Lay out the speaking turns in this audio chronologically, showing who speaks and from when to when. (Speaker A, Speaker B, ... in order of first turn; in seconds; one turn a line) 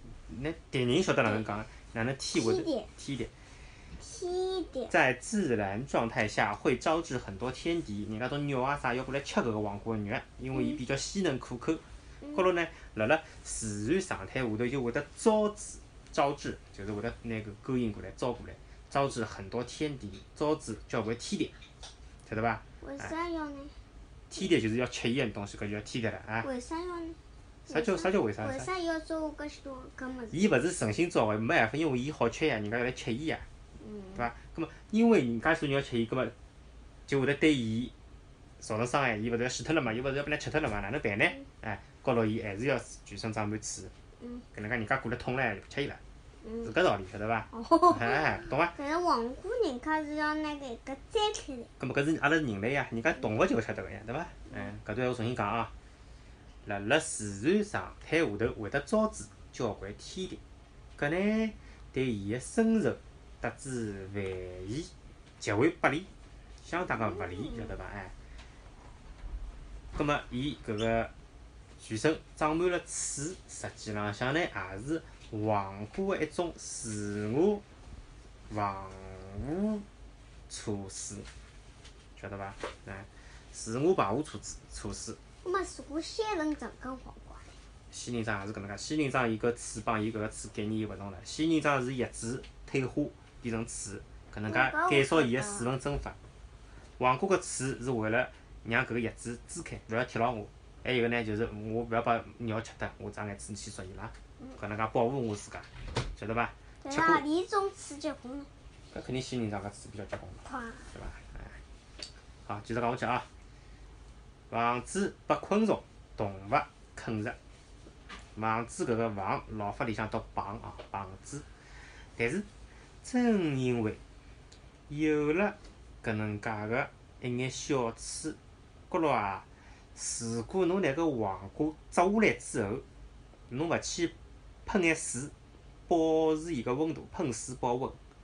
Speaker A: 0.3-3.3
Speaker B: 2.4-2.9
Speaker B: 4.0-4.9
Speaker A: 4.9-21.5
Speaker A: 22.2-23.1
Speaker B: 22.8-23.8
Speaker A: 24.3-26.5
Speaker B: 26.4-27.2
Speaker B: 27.7-30.6
Speaker A: 27.7-28.7
Speaker A: 30.3-33.5
Speaker B: 33.8-34.3
Speaker A: 34.2-36.3
Speaker A: 37.1-37.9
Speaker A: 38.6-43.9
Speaker A: 44.5-46.0
Speaker B: 46.4-46.7
Speaker A: 46.6-48.7
Speaker B: 47.5-51.7
Speaker A: 51.8-55.7
Speaker A: 56.6-60.4
Speaker A: 61.0-66.1
Speaker A: 66.6-68.1
Speaker B: 66.8-67.8
Speaker A: 70.0-71.1
Speaker A: 71.8-77.6
Speaker A: 78.5-79.8
Speaker A: 80.5-81.3
Speaker A: 82.2-85.2
Speaker B: 85.4-87.5
Speaker A: 87.9-96.2
Speaker B: 94.5-95.7
Speaker A: 97.0-107.2
Speaker B: 106.8-108.5
Speaker A: 108.9-111.6
Speaker B: 110.4-110.9
Speaker A: 112.5-113.3
Speaker A: 114.5-117.4
Speaker A: 118.3-121.5
Speaker A: 122.0-122.5
Speaker A: 123.0-124.0
Speaker A: 124.9-128.4
Speaker A: 128.9-132.8
Speaker A: 133.5-134.1
Speaker A: 134.7-135.3
Speaker A: 135.9-138.0